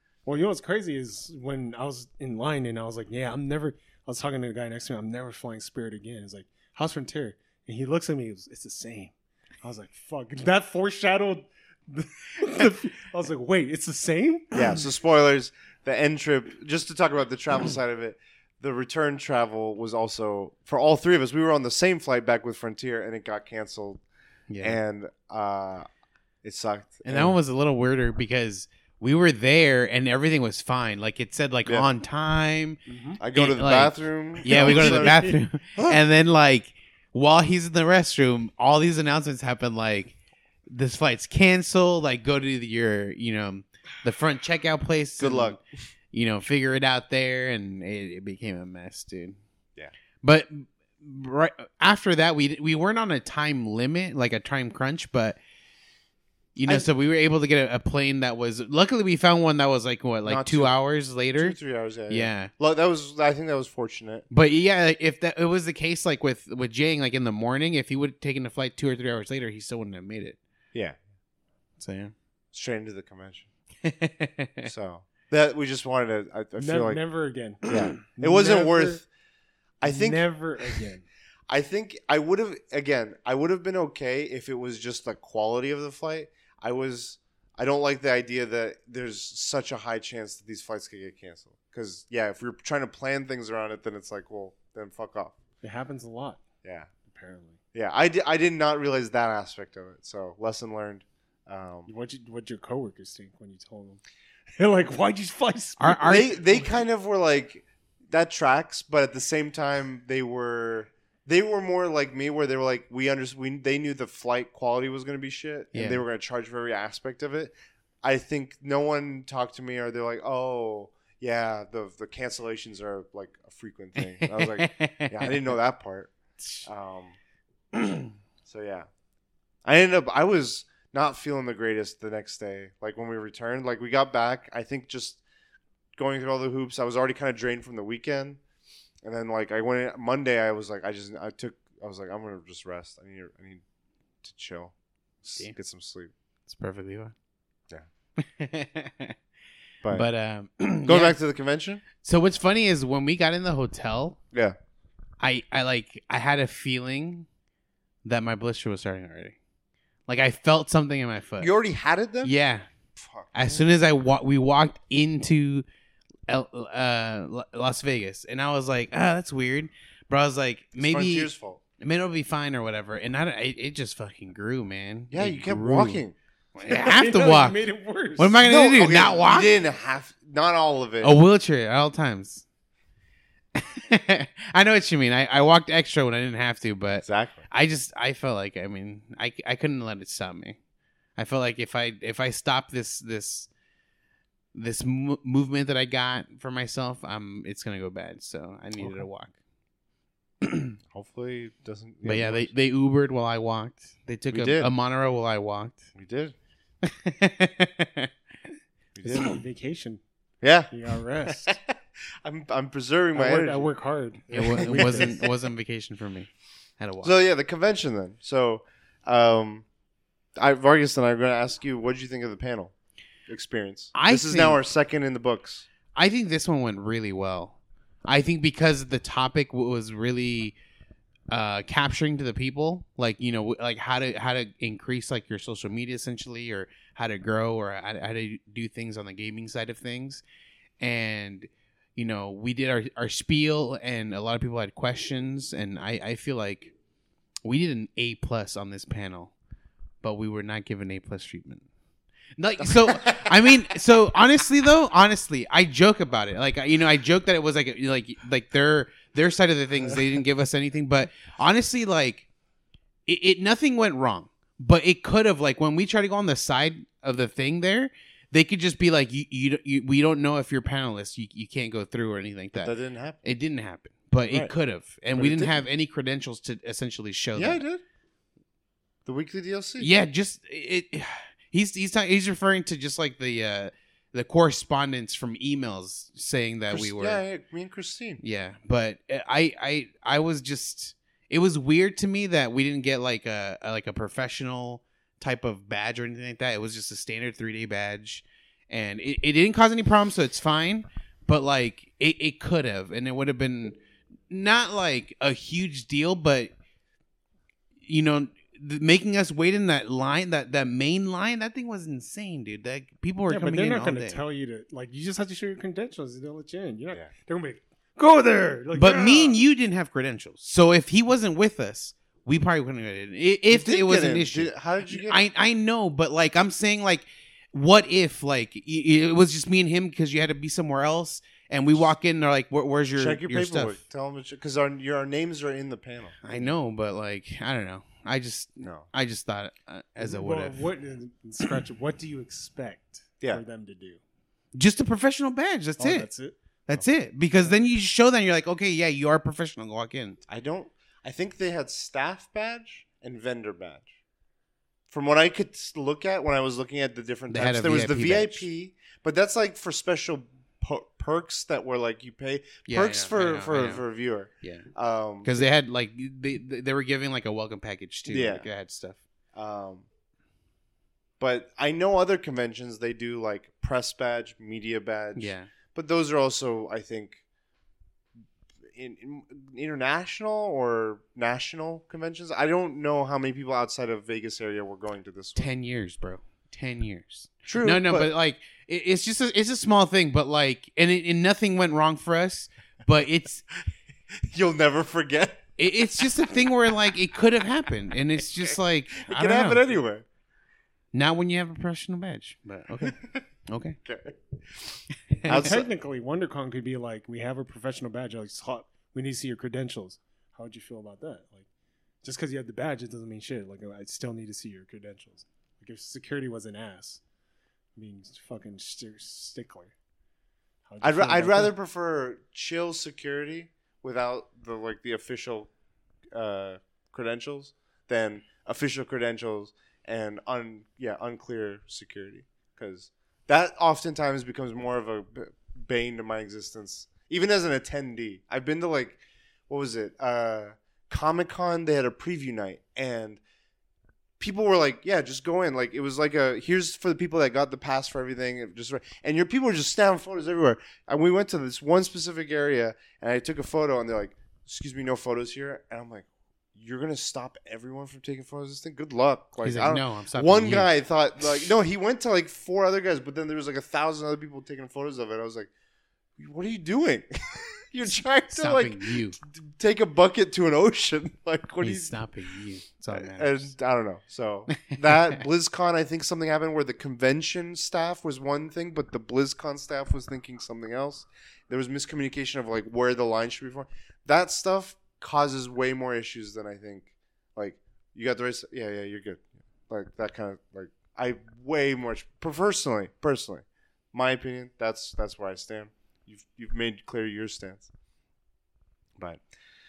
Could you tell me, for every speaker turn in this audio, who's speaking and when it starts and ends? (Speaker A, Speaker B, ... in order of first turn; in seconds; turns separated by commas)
Speaker A: 0.3-14.8, Speaker B: 14.5-24.0, Speaker C: 24.5-24.8, Speaker B: 24.6-25.9, Speaker B: 26.4-27.4, Speaker C: 27.1-40.1, Speaker A: 32.9-33.2, Speaker B: 33.2-36.0, Speaker A: 34.5-35.4, Speaker C: 40.7-45.6, Speaker B: 45.2-45.6, Speaker C: 46.1-49.4, Speaker C: 50.2-55.4, Speaker C: 56.5-61.6, Speaker B: 60.2-60.7, Speaker B: 61.4-64.3, Speaker C: 62.1-62.5, Speaker C: 64.3-70.4, Speaker B: 70.7-71.0, Speaker C: 71.8-72.1, Speaker B: 72.5-73.5, Speaker C: 73.8-74.7, Speaker B: 74.6-77.0, Speaker A: 76.6-79.0, Speaker B: 77.6-79.0, Speaker B: 79.8-80.3, Speaker A: 79.8-81.1, Speaker B: 81.5-95.4, Speaker A: 95.6-96.4, Speaker B: 96.6-96.9, Speaker A: 97.0-97.6, Speaker B: 97.7-101.9, Speaker A: 101.9-104.0, Speaker A: 104.6-106.7, Speaker C: 105.8-106.3, Speaker B: 106.1-126.1, Speaker C: 115.7-116.0, Speaker C: 124.0-125.4, Speaker B: 126.6-127.2, Speaker C: 127.8-128.1, Speaker B: 128.4-128.9, Speaker B: 129.7-135.2, Speaker B: 136.0-138.4, Speaker B: 139.0-143.6, Speaker B: 144.2-146.1, Speaker C: 146.5-147.1, Speaker C: 148.2-149.2, Speaker C: 149.9-151.2, Speaker B: 150.9-151.8, Speaker C: 152.0-154.2, Speaker C: 155.2-157.3, Speaker C: 158.1-159.4, Speaker C: 160.1-161.5, Speaker B: 161.4-162.3, Speaker C: 162.2-162.7, Speaker B: 162.9-163.6, Speaker C: 163.3-165.6, Speaker C: 166.3-176.0, Speaker B: 170.8-171.6, Speaker B: 175.1-176.1, Speaker C: 176.6-177.6, Speaker A: 176.7-178.4, Speaker C: 178.2-179.5, Speaker B: 178.4-181.2, Speaker C: 181.0-182.4, Speaker C: 183.6-190.6, Speaker B: 187.0-187.4, Speaker C: 191.2-193.5, Speaker C: 194.5-199.3, Speaker C: 200.4-200.8, Speaker B: 200.9-202.5, Speaker C: 202.0-205.9, Speaker B: 204.3-204.7, Speaker B: 205.9-206.3, Speaker C: 206.8-208.1, Speaker B: 208.9-209.4, Speaker A: 209.0-210.0, Speaker B: 210.4-210.7, Speaker A: 210.7-211.5, Speaker B: 211.2-213.7, Speaker A: 213.1-215.1, Speaker B: 214.3-215.3, Speaker C: 214.3-217.1, Speaker B: 217.0-219.7, Speaker B: 220.4-222.7, Speaker B: 223.3-225.7, Speaker C: 223.9-224.6, Speaker C: 225.9-230.6, Speaker C: 231.3-240.2, Speaker C: 240.8-246.7, Speaker C: 247.4-249.3, Speaker C: 250.0-251.6, Speaker C: 252.4-262.3, Speaker B: 252.9-253.3, Speaker C: 263.1-272.7, Speaker B: 272.6-273.2, Speaker C: 273.2-277.6, Speaker B: 275.1-275.6, Speaker B: 277.4-277.8, Speaker B: 279.1-279.9, Speaker C: 279.8-287.2, Speaker B: 286.7-288.2, Speaker C: 288.2-303.8, Speaker C: 304.3-306.5, Speaker C: 307.8-314.2, Speaker A: 313.3-319.4, Speaker C: 318.7-333.8, Speaker B: 323.5-325.2, Speaker B: 332.9-336.2, Speaker C: 336.2-340.6, Speaker B: 338.6-338.9, Speaker A: 340.0-344.0, Speaker C: 344.5-346.1, Speaker A: 345.8-346.4, Speaker C: 346.7-350.2, Speaker B: 350.3-353.9, Speaker B: 354.9-365.4, Speaker C: 357.3-358.4, Speaker C: 362.7-363.8, Speaker C: 364.4-364.7, Speaker C: 365.2-369.0, Speaker B: 368.1-368.5, Speaker B: 369.3-369.9, Speaker B: 371.2-377.2, Speaker C: 375.1-375.5, Speaker B: 378.7-385.5, Speaker C: 385.4-393.4, Speaker B: 387.4-388.1, Speaker B: 394.2-395.5, Speaker C: 395.6-399.6, Speaker B: 399.0-400.1, Speaker C: 400.9-403.8, Speaker B: 403.8-404.1, Speaker C: 405.1-405.4, Speaker B: 405.3-405.6, Speaker A: 405.3-411.5, Speaker A: 412.0-417.0, Speaker A: 417.8-419.7, Speaker A: 420.7-421.5, Speaker B: 420.8-425.5, Speaker B: 426.1-443.2, Speaker B: 444.2-465.5, Speaker C: 459.4-460.7, Speaker B: 466.2-471.9, Speaker C: 468.3-469.2, Speaker C: 471.6-473.5, Speaker B: 472.9-497.7, Speaker C: 474.6-475.1, Speaker B: 499.0-499.2